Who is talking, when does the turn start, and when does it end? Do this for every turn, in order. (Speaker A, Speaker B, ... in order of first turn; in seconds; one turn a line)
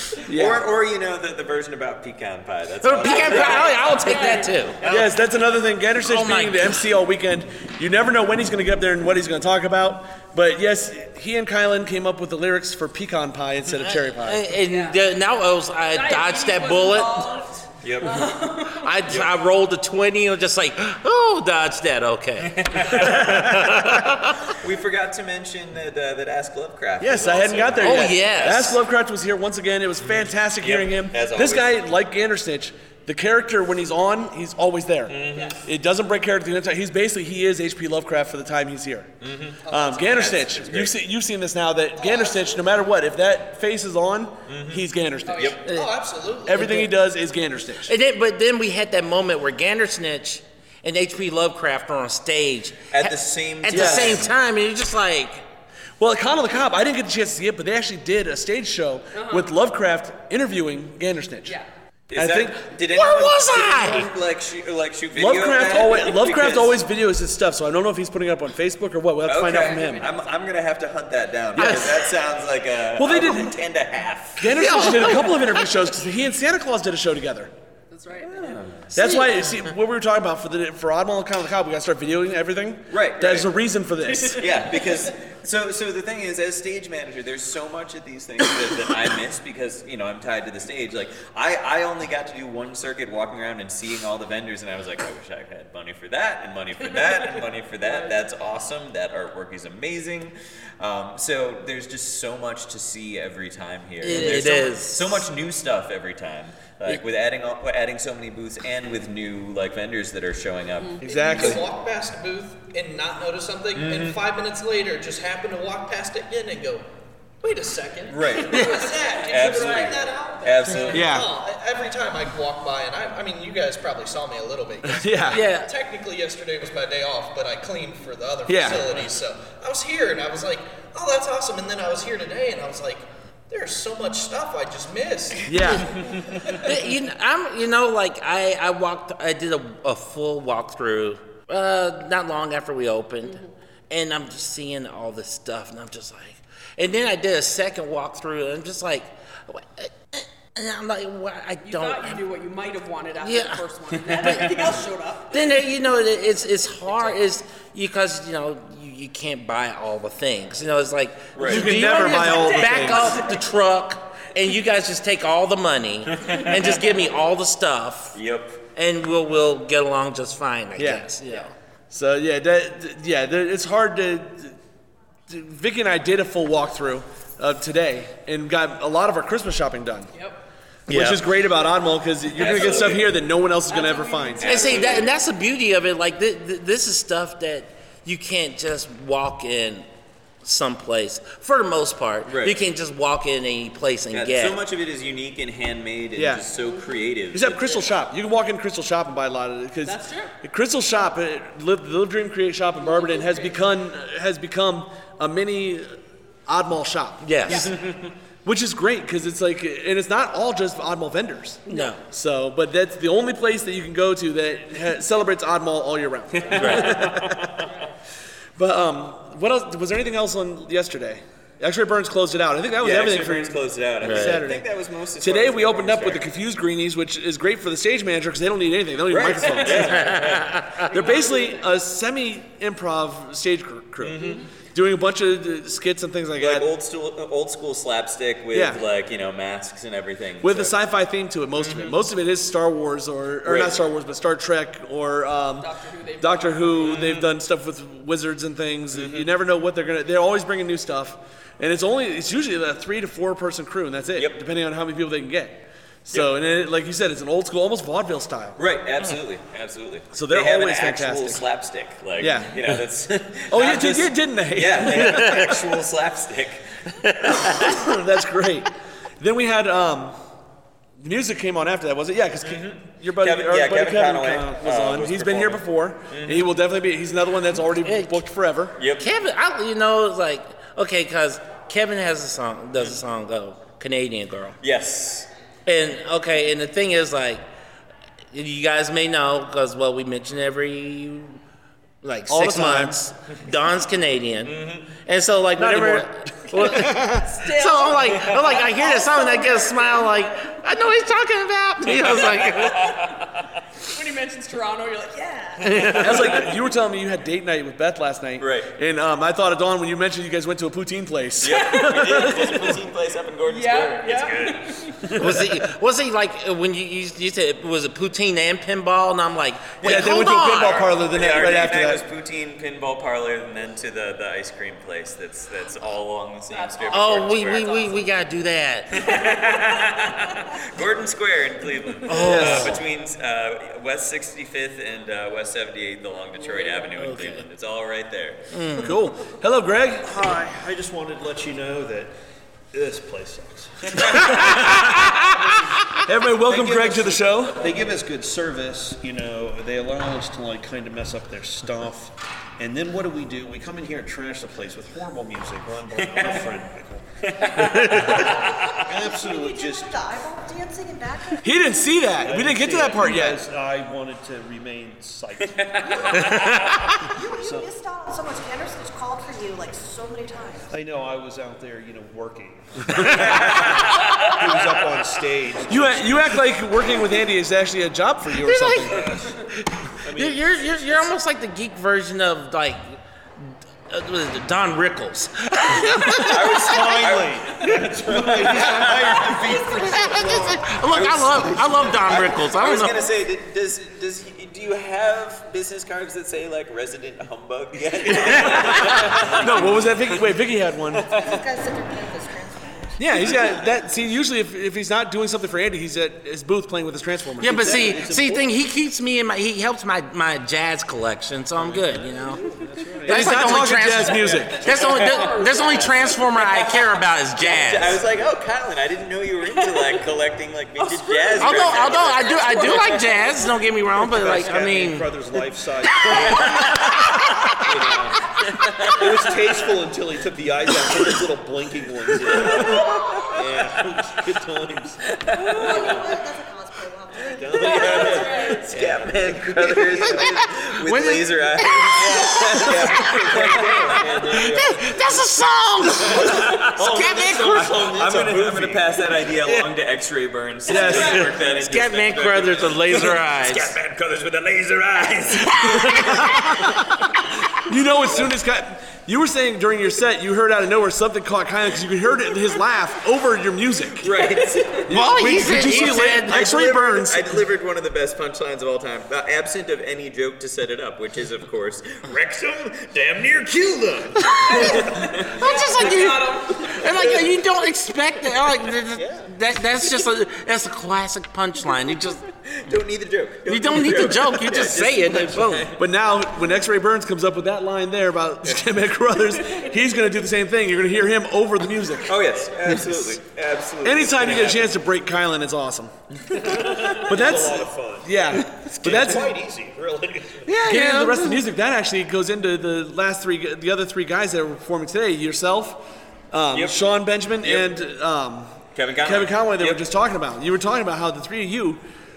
Speaker A: 0.3-0.7
Speaker B: 0.3-4.3
Speaker C: 2.8-4.8
Speaker D: 3.0-4.5
Speaker B: 4.8-5.1
Speaker A: 4.8-14.5
Speaker C: 6.0-6.9
Speaker C: 13.8-17.3
Speaker D: 14.7-15.0
Speaker D: 15.9-18.9
Speaker B: 17.8-18.3
Speaker C: 18.7-24.3
Speaker B: 19.1-19.3
Speaker B: 22.4-23.8
Speaker B: 24.5-28.7
Speaker A: 27.0-39.1
Speaker C: 27.8-28.8
Speaker B: 30.1-31.8
Speaker B: 35.1-35.6
Speaker D: 35.3-35.6
Speaker B: 39.2-41.0
Speaker E: 39.6-40.2
Speaker A: 39.7-45.6
Speaker B: 44.5-44.8
Speaker D: 45.2-45.6
Speaker E: 45.6-46.7
Speaker A: 46.5-47.9
Speaker C: 46.5-46.9
Speaker C: 47.9-55.4
Speaker B: 52.9-54.3
Speaker A: 53.7-54.2
Speaker A: 56.0-61.6
Speaker D: 59.1-59.5
Speaker B: 62.1-66.8
Speaker A: 62.1-62.6
Speaker C: 62.9-64.1
Speaker A: 65.1-70.1
Speaker B: 69.2-75.1
Speaker D: 69.5-70.3
Speaker A: 71.6-71.8
Speaker C: 71.6-72.0
Speaker A: 73.0-73.6
Speaker A: 74.4-77.5
Speaker C: 74.5-75.6
Speaker D: 77.9-78.6
Speaker B: 78.2-78.9
Speaker A: 78.9-84.7
Speaker B: 82.9-83.5
Speaker B: 84.2-111.6
Speaker D: 96.9-98.2
Speaker C: 104.0-105.2
Speaker D: 110.8-111.3
Speaker A: 111.0-111.6
Speaker E: 111.0-116.9
Speaker B: 113.7-114.2
Speaker E: 117.4-135.5
Speaker B: 118.1-121.2
Speaker D: 119.5-119.8
Speaker D: 120.4-121.0
Speaker A: 120.9-121.3
Speaker A: 124.8-125.5
Speaker C: 125.3-125.7
Speaker A: 128.5-128.9
Speaker A: 135.4-136.0
Speaker C: 136.6-143.4
Speaker D: 143.2-143.5
Speaker C: 143.9-152.2
Speaker D: 151.6-155.5
Speaker C: 153.2-154.6
Speaker C: 155.3-168.2
Speaker B: 161.3-161.7
Speaker A: 161.4-163.2
Speaker D: 161.8-163.4
Speaker B: 166.1-166.7
Speaker B: 168.1-168.6
Speaker C: 168.8-171.5
Speaker A: 170.8-171.1
Speaker A: 171.9-174.6
Speaker A: 175.3-180.1
Speaker D: 180.1-180.4
Speaker A: 180.9-184.7
Speaker B: 182.3-183.1
Speaker D: 182.4-182.9
Speaker D: 183.7-185.1
Speaker B: 184.4-185.1
Speaker C: 184.4-189.8
Speaker C: 190.4-194.6
Speaker B: 192.2-192.6
Speaker B: 194.1-197.9
Speaker A: 196.2-196.5
Speaker D: 196.6-196.9
Speaker A: 197.3-205.9
Speaker D: 199.8-200.3
Speaker D: 202.8-203.6
Speaker A: 206.5-207.7
Speaker C: 207.2-207.7
Speaker D: 207.5-207.8
Speaker A: 208.4-217.6
Speaker C: 211.7-212.0
Speaker B: 216.4-217.5
Speaker C: 216.5-217.0
Speaker A: 218.6-230.2
Speaker B: 222.8-226.3
Speaker C: 224.0-224.4
Speaker B: 229.1-230.6
Speaker C: 229.9-230.8
Speaker A: 230.9-236.7
Speaker D: 230.9-231.6
Speaker B: 234.0-234.4
Speaker D: 234.2-234.5
Speaker B: 236.4-240.8
Speaker A: 238.5-238.8
Speaker A: 240.4-258.6
Speaker B: 241.6-241.9
Speaker B: 243.4-243.8
Speaker D: 245.6-246.9
Speaker B: 246.8-247.3
Speaker B: 248.9-249.3
Speaker B: 258.6-267.4
Speaker A: 260.1-261.4
Speaker A: 262.2-262.8
Speaker A: 263.5-265.6
Speaker A: 267.3-268.7
Speaker A: 269.2-270.2
Speaker A: 271.0-278.8
Speaker B: 272.4-276.5
Speaker C: 277.8-278.2
Speaker B: 278.8-279.1
Speaker C: 279.0-284.6
Speaker B: 284.6-285.3
Speaker C: 285.6-287.4
Speaker C: 288.3-291.4
Speaker C: 292.0-303.0
Speaker A: 292.3-293.0
Speaker B: 294.5-294.8
Speaker A: 295.6-297.2
Speaker D: 296.8-300.3
Speaker D: 301.9-303.2
Speaker D: 303.8-306.4
Speaker C: 305.6-306.3
Speaker A: 305.9-312.6
Speaker B: 308.4-308.7
Speaker B: 311.4-315.2
Speaker D: 311.4-312.7
Speaker D: 313.4-315.1
Speaker C: 315.1-320.9
Speaker A: 319.8-322.0
Speaker B: 319.8-327.9
Speaker D: 326.5-328.1
Speaker C: 326.9-329.0
Speaker B: 328.9-338.5
Speaker D: 329.1-329.9
Speaker C: 332.0-332.8
Speaker A: 332.1-332.8
Speaker C: 337.0-337.4
Speaker C: 338.5-338.9
Speaker A: 338.8-340.1
Speaker F: 340.0-342.1
Speaker F: 342.7-345.7
Speaker B: 344.0-344.4
Speaker C: 344.5-345.2
Speaker A: 346.0-347.6
Speaker B: 346.5-347.2
Speaker F: 347.5-357.1
Speaker B: 357.3-358.1
Speaker F: 357.6-360.0
Speaker A: 357.6-358.1
Speaker G: 358.9-361.7
Speaker A: 361.4-363.4
Speaker F: 362.1-366.4
Speaker C: 366.3-366.8
Speaker G: 367.1-370.7
Speaker F: 367.3-367.7
Speaker F: 370.7-376.4
Speaker B: 373.4-373.6
Speaker A: 375.7-379.1
Speaker C: 378.4-379.1
Speaker F: 380.0-381.1
Speaker C: 380.1-383.0
Speaker C: 383.9-386.6
Speaker B: 386.2-389.6
Speaker F: 386.3-390.7
Speaker C: 389.8-393.0
Speaker B: 390.8-399.8
Speaker A: 398.1-401.1
Speaker G: 401.1-403.2
Speaker A: 403.0-407.9
Speaker C: 407.4-412.4
Speaker F: 407.4-408.5
Speaker F: 411.6-414.8
Speaker C: 413.0-418.0
Speaker A: 413.1-414.6
Speaker D: 414.5-416.8
Speaker B: 414.8-415.3
Speaker B: 416.4-416.7
Speaker B: 417.4-423.1
Speaker D: 420.8-423.3
Speaker C: 421.4-425.1
Speaker F: 424.0-426.9
Speaker C: 426.0-427.6
Speaker B: 426.6-426.9
Speaker B: 427.6-429.1
Speaker F: 427.6-428.1
Speaker F: 428.9-435.0
Speaker B: 432.4-433.4
Speaker B: 435.2-436.2
Speaker G: 435.4-438.0
Speaker F: 435.6-436.0
Speaker F: 437.2-440.3
Speaker B: 437.6-445.3
Speaker D: 437.6-438.7
Speaker C: 439.9-447.9
Speaker F: 441.9-442.4
Speaker F: 442.9-444.5
Speaker F: 446.1-449.1
Speaker B: 446.1-446.7
Speaker B: 447.6-456.8
Speaker A: 450.6-451.3
Speaker C: 450.8-453.7
Speaker A: 455.9-456.6
Speaker A: 457.6-464.2
Speaker B: 464.0-475.3
Speaker A: 464.9-467.4
Speaker C: 464.9-466.4
Speaker C: 474.3-482.2
Speaker D: 475.4-477.1
Speaker F: 478.9-479.3
Speaker B: 482.5-485.8
Speaker C: 483.5-485.7
Speaker A: 485.7-492.2
Speaker B: 492.0-494.7
Speaker A: 493.8-495.9
Speaker B: 496.3-497.7
Speaker F: 496.4-500.6
Speaker A: 497.0-499.3
Speaker C: 500.4-501.4
Speaker A: 500.6-511.8
Speaker B: 506.5-506.8
Speaker B: 507.4-507.7
Speaker B: 508.8-509.8